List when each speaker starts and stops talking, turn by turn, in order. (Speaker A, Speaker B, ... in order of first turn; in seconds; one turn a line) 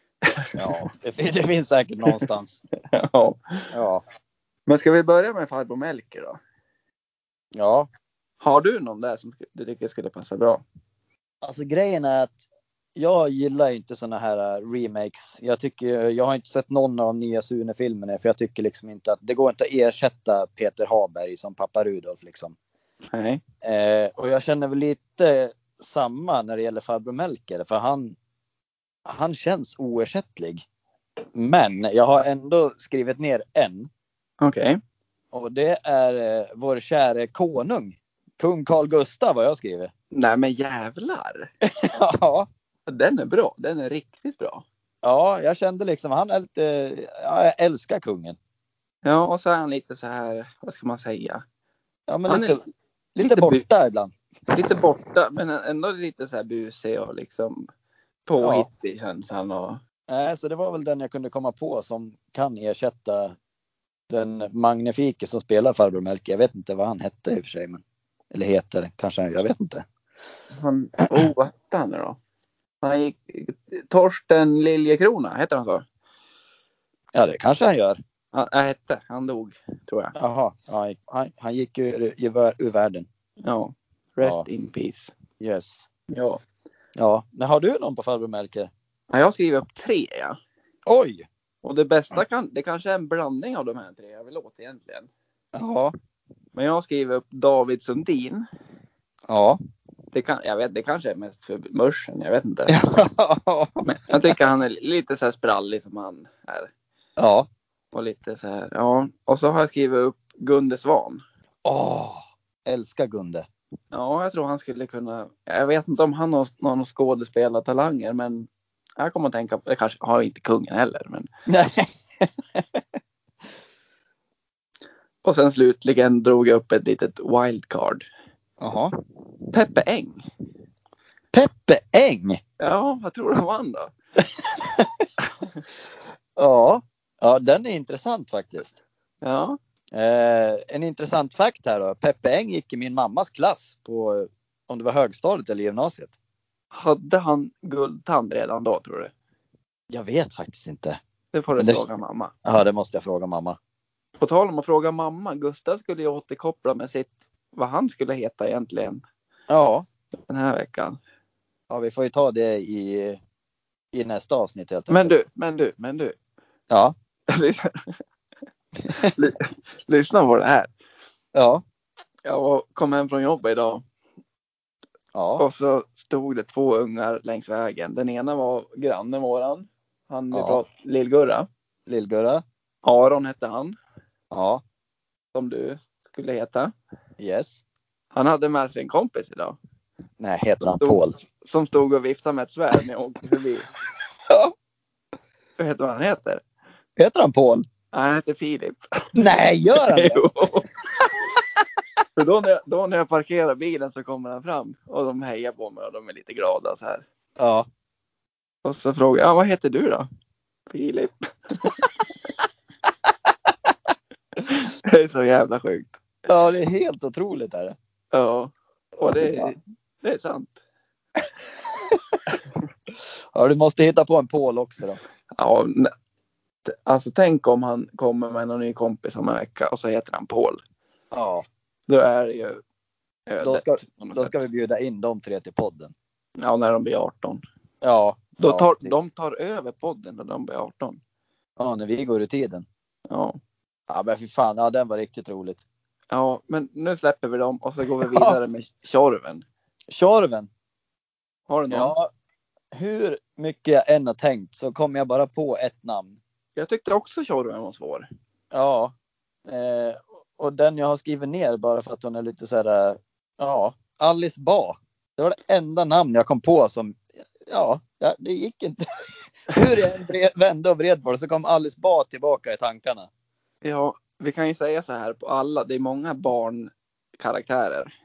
Speaker A: 0.4-0.8
Speaker B: 0.6-2.6
Speaker A: 2.9-3.7
Speaker B: 3.7-4.0
Speaker A: 4.7-6.4
Speaker B: 7.5-7.9
Speaker A: 8.4-10.6
Speaker B: 11.4-12.4
Speaker B: 12.9-22.5
Speaker A: 23.1-23.4
Speaker B: 23.6-28.1
Speaker B: 29.1-30.6
Speaker B: 31.3-33.9
Speaker A: 34.4-34.8
Speaker B: 35.3-39.9
Speaker A: 40.1-41.5
Speaker B: 41.9-42.5
Speaker A: 42.9-44.6
Speaker B: 45.0-48.4
Speaker A: 49.0-51.4
Speaker B: 52.1-52.6
Speaker A: 52.3-52.6
Speaker B: 53.1-54.1
Speaker A: 53.2-53.6
Speaker A: 54.5-57.7
Speaker A: 58.3-59.8
Speaker B: 58.4-58.7
Speaker B: 60.1-63.3
Speaker B: 64.1-69.8
Speaker A: 70.5-72.2
Speaker A: 72.8-75.8
Speaker B: 77.1-78.0
Speaker A: 78.3-80.1
Speaker B: 80.2-83.1
Speaker A: 83.4-85.1
Speaker B: 85.4-85.8
Speaker A: 86.1-86.4
Speaker B: 87.0-88.7
Speaker A: 89.1-90.3
Speaker B: 90.8-91.2
Speaker A: 91.6-95.1
Speaker B: 95.5-95.9
Speaker A: 96.5-98.4
Speaker B: 99.3-99.6
Speaker A: 100.1-102.8
Speaker B: 102.7-104.3
Speaker A: 103.8-106.7
Speaker B: 107.2-107.5
Speaker A: 107.9-111.2
Speaker B: 111.6-113.5
Speaker A: 113.9-121.3
Speaker B: 121.5-122.8
Speaker A: 125.2-128.0
Speaker B: 128.6-128.9
Speaker A: 129.5-130.2
Speaker B: 131.3-132.4
Speaker A: 132.6-133.9
Speaker B: 134.4-135.0
Speaker B: 136.4-138.8
Speaker A: 139.2-139.6
Speaker B: 139.9-146.1
Speaker A: 146.7-149.1
Speaker B: 149.9-151.0
Speaker A: 151.3-152.3
Speaker B: 152.4-153.6
Speaker A: 154.2-159.0
Speaker B: 159.5-159.8
Speaker A: 160.3-161.0
Speaker B: 161.7-163.2
Speaker B: 163.9-165.1
Speaker A: 164.9-166.2
Speaker A: 167.3-167.7
Speaker A: 168.9-170.7
Speaker B: 171.3-171.6
Speaker A: 172.2-173.8
Speaker B: 175.1-175.4
Speaker A: 175.4-181.5
Speaker B: 180.3-180.6
Speaker B: 181.9-182.4
Speaker A: 182.8-183.7
Speaker B: 184.3-184.6
Speaker A: 185.3-186.7
Speaker B: 187.2-187.6
Speaker A: 188.1-189.6
Speaker B: 190.2-191.1
Speaker A: 190.6-193.7
Speaker A: 195.6-196.4
Speaker B: 197.0-197.6
Speaker A: 197.9-198.8
Speaker B: 199.2-200.2
Speaker A: 199.7-200.7
Speaker A: 202.2-207.0
Speaker B: 207.4-207.7
Speaker A: 208.6-210.1
Speaker A: 210.7-211.8
Speaker A: 214.4-216.0
Speaker B: 216.3-217.7
Speaker A: 218.1-220.5
Speaker B: 219.0-219.5
Speaker B: 223.3-225.0
Speaker A: 225.3-225.9
Speaker A: 226.7-230.6
Speaker B: 231.1-231.4
Speaker A: 231.9-232.6
Speaker A: 233.3-234.4
Speaker B: 233.4-235.9
Speaker A: 236.4-237.4
Speaker B: 237.8-239.0
Speaker A: 238.4-241.0
Speaker B: 241.6-242.6
Speaker A: 243.1-243.4
Speaker B: 243.9-245.6
Speaker A: 246.1-249.4
Speaker B: 248.0-248.3
Speaker B: 249.9-250.5
Speaker A: 251.5-251.9
Speaker B: 251.7-252.1
Speaker B: 252.7-256.2
Speaker A: 256.6-258.1
Speaker B: 258.5-258.9
Speaker B: 259.4-268.8
Speaker B: 269.5-273.1
Speaker A: 273.6-277.9